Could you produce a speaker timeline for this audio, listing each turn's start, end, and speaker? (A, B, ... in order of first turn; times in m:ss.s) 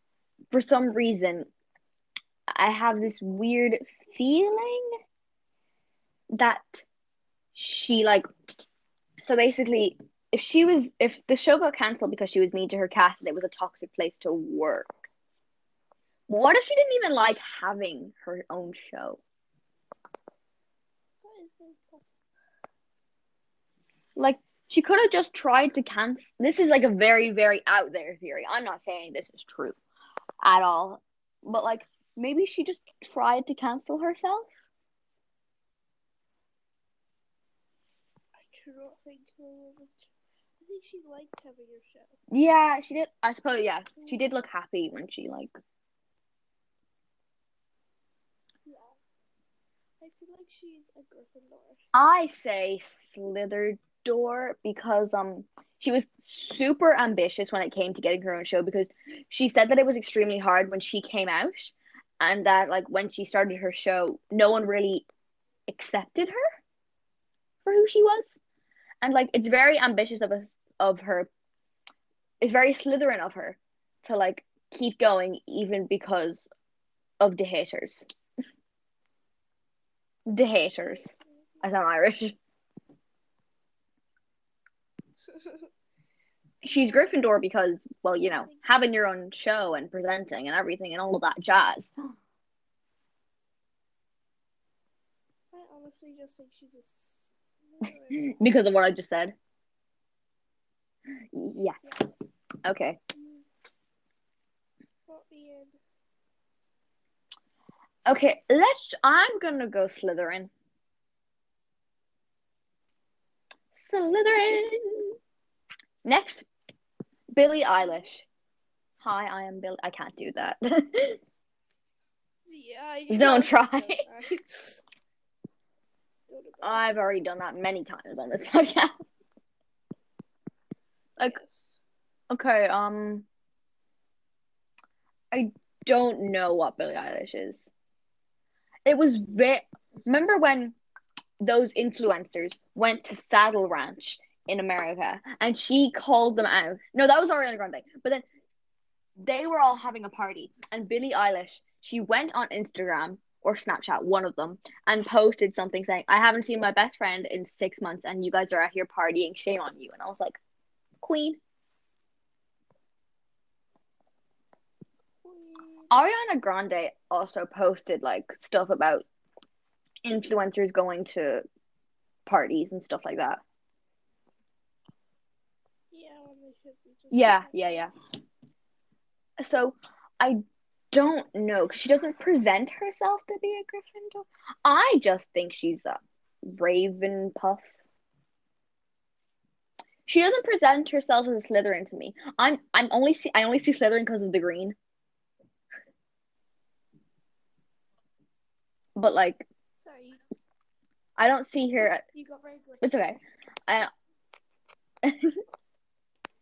0:00.5-0:01.5 A
0:02.5-0:04.9 A
0:06.3-0:06.8 A
0:07.5-0:08.2 A
0:09.2-0:14.9 A
0:16.3-0:19.2 A
0:21.2-0:22.1 B
0:24.2-0:29.8 A
0:30.4-0:34.5 A
0:38.3-0:42.2 B
0:42.3-0:45.5 A
0:44.0-0:44.3 B
0:48.6-0:49.0 B
0:50.0-0:51.8 B
0:51.9-1:05.0 A
1:05.7-1:06.4 A
1:07.6-1:08.3 A
1:09.0-1:11.3 A
1:12.4-1:16.4 A
1:17.2-1:18.0 A
1:20.3-1:21.1 A
1:20.7-1:21.7 B
1:21.6-1:22.4 A
1:25.3-1:25.7 B
1:26.6-1:31.9 A
1:26.6-1:28.8 B
1:35.5-1:38.4 B
1:38.1-1:39.3 A
1:41.3-1:41.8 A
1:41.8-1:42.4 B
1:42.6-1:43.0 A
1:43.1-1:43.4 B
1:45.1-1:45.8 B
1:48.1-1:50.5 A
1:53.8-1:55.1 A
1:56.0-1:56.4 A
1:57.3-1:58.2 A
1:59.0-2:01.2 A
2:02.4-2:04.8 B
2:03.1-2:04.0 A
2:06.3-2:07.0 B
2:06.6-2:08.9 A
2:11.2-2:11.8 B
2:12.3-2:13.2 A
2:15.3-2:17.6 A
2:18.8-2:20.8 A
2:21.4-2:28.2 A
2:29.2-2:40.4 A
2:41.0-2:41.4 A
2:45.2-2:46.0 B
2:45.9-2:49.0 A
2:50.0-2:51.4 A
2:52.2-2:53.4 A
2:55.9-2:57.9 B
2:57.1-2:57.9 A
2:59.4-3:00.4 A
3:00.9-3:07.6 A
3:10.0-3:14.8 A
3:19.0-3:19.4 A
3:19.8-3:20.3 B
3:21.2-3:22.0 A
3:22.1-3:23.2 B
3:22.8-3:23.9 A
3:25.0-3:25.4 A